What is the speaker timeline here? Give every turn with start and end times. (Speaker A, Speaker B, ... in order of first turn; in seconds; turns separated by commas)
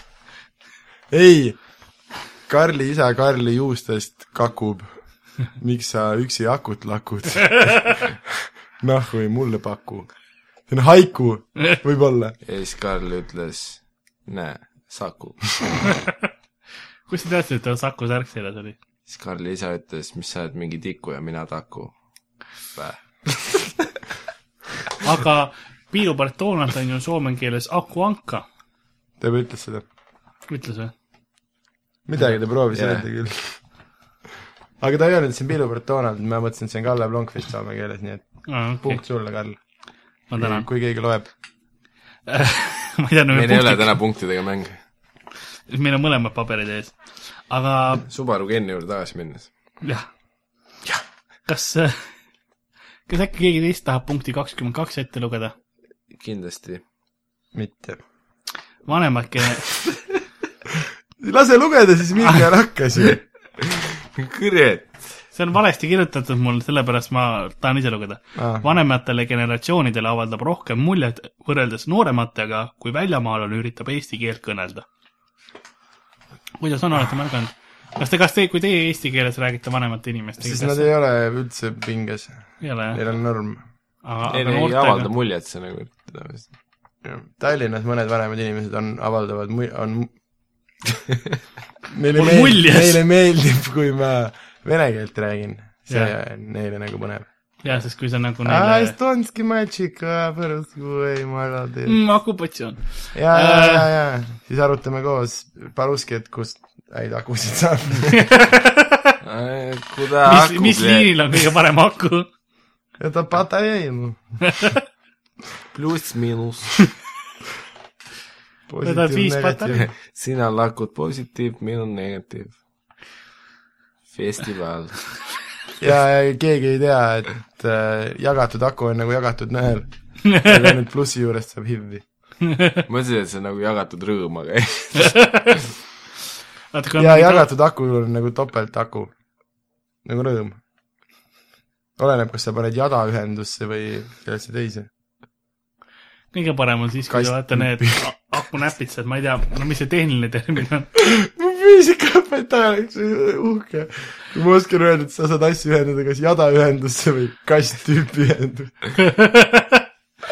Speaker A: 1.1-1.6, Speaker A: 2.5-10.1, Speaker A: 10.7-12.3, Speaker B: 12.4-15.6, Speaker C: 17.1-18.8, Speaker B: 19.1-21.9, Speaker B: 22.7-23.9, Speaker C: 25.0-28.4, Speaker A: 29.2-29.8, Speaker C: 30.5-30.9, Speaker A: 32.1-33.6, Speaker B: 32.7-33.0, Speaker A: 34.8-38.2, Speaker C: 38.5-39.0, Speaker A: 38.8-39.6, Speaker C: 40.3-40.7, Speaker A: 40.4-41.3, Speaker C: 42.3-44.0, Speaker B: 43.3-44.8, Speaker C: 45.7-47.0, Speaker C: 47.5-48.0, Speaker B: 48.1-49.5, Speaker C: 49.8-50.1, Speaker C: 51.5-52.1, Speaker C: 53.1-55.5, Speaker B: 56.1-56.8, Speaker A: 57.5-58.0, Speaker C: 58.9-59.7, Speaker A: 61.2-63.2, Speaker B: 63.6-65.1, Speaker C: 65.3-74.8, Speaker A: 68.3-68.7, Speaker C: 76.6-80.9, Speaker A: 80.4-83.6, Speaker C: 82.6-83.0, Speaker C: 84.0-85.1, Speaker B: 84.3-86.5, Speaker A: 87.0-90.1, Speaker A: 91.9-97.3, Speaker C: 92.1-93.0, Speaker C: 95.9-96.1, Speaker C: 97.6-98.9, Speaker A: 98.4-102.0, Speaker C: 101.8-103.9, Speaker A: 103.1-108.2, Speaker C: 108.0-109.2, Speaker B: 109.2-111.4, Speaker C: 110.2-112.3, Speaker A: 113.0-114.2, Speaker B: 115.7-116.8, Speaker A: 118.7-119.9, Speaker C: 118.8-119.8, Speaker B: 119.7-122.5, Speaker B: 124.1-125.0, Speaker A: 125.8-132.0, Speaker C: 130.3-130.7, Speaker C: 132.4-132.8, Speaker B: 132.9-135.2, Speaker C: 135.0-135.6, Speaker C: 136.7-137.5, Speaker A: 137.0-139.1, Speaker A: 140.0-140.6, Speaker A: 142.0-144.9, Speaker C: 146.3-150.9, Speaker A: 147.1-148.0, Speaker A: 150.9-158.8, Speaker C: 159.0-159.8